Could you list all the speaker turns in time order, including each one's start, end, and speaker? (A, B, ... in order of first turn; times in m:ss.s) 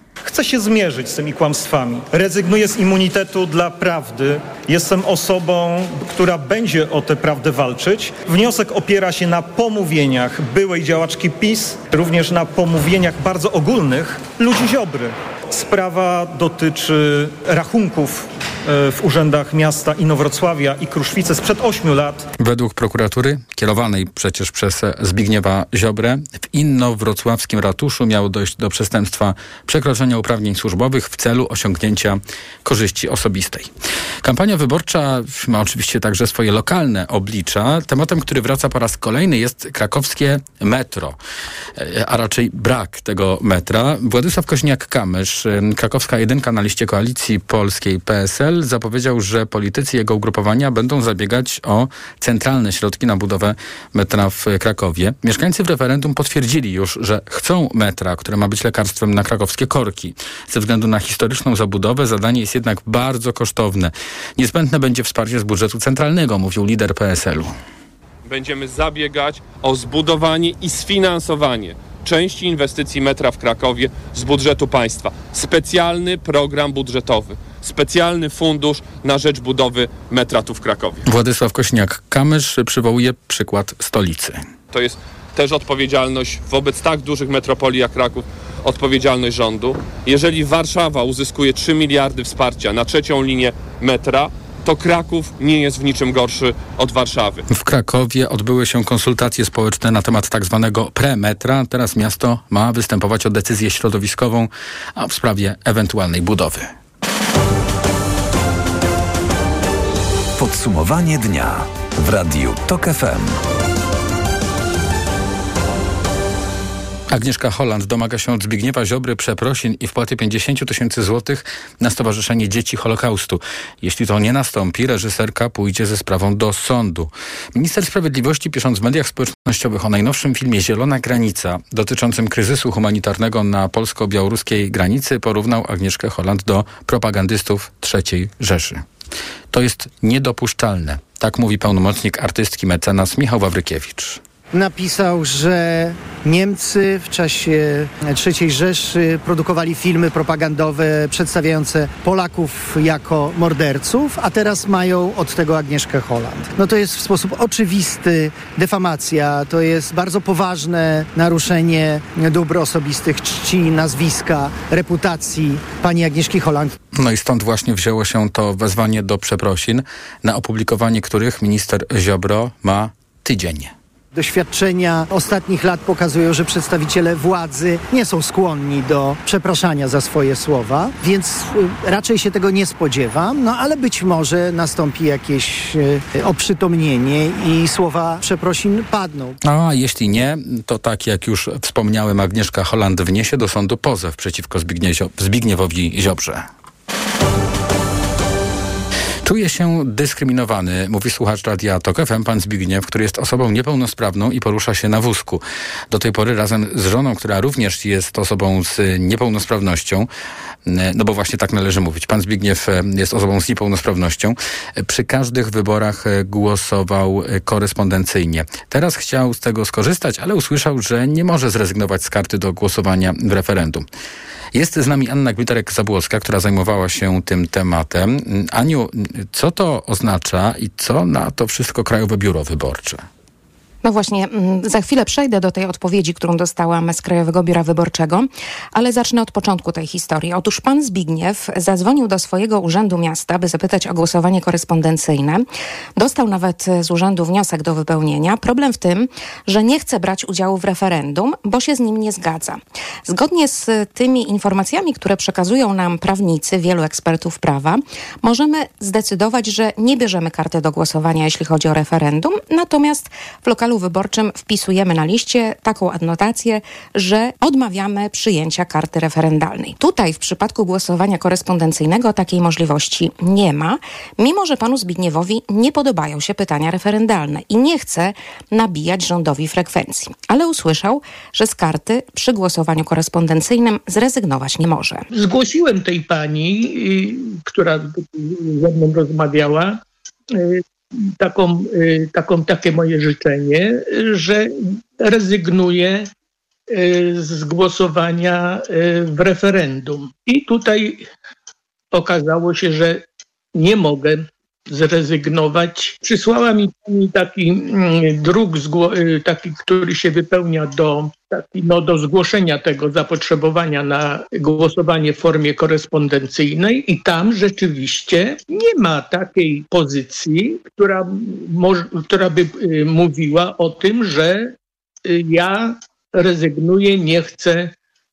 0:00.2-0:22.2 A
0:22.4-0:33.7 B
0:34.2-0:41.2 B
0:41.8-1:07.6 B
1:08.3-1:21.0 C
1:21.0-1:24.4 B
1:24.7-1:37.4 C
1:37.5-1:46.7 B
1:50.4-1:53.4 D
1:57.1-2:18.8 B
2:19.5-2:24.2 B
2:24.5-2:46.7 E
2:47.0-2:53.7 B
2:54.1-3:09.4 E
3:09.4-3:16.5 B
3:19.2-3:30.1 B
3:30.6-3:43.8 B
3:44.5-3:53.0 B
3:53.8-4:05.4 F
4:06.0-4:45.0 F
4:45.1-4:49.8 G
4:50.3-4:50.6 G
4:51.2-4:56.1 G
4:56.7-5:01.1 G
5:01.9-5:03.0 G
5:03.5-5:24.5 G
5:25.1-5:27.7 G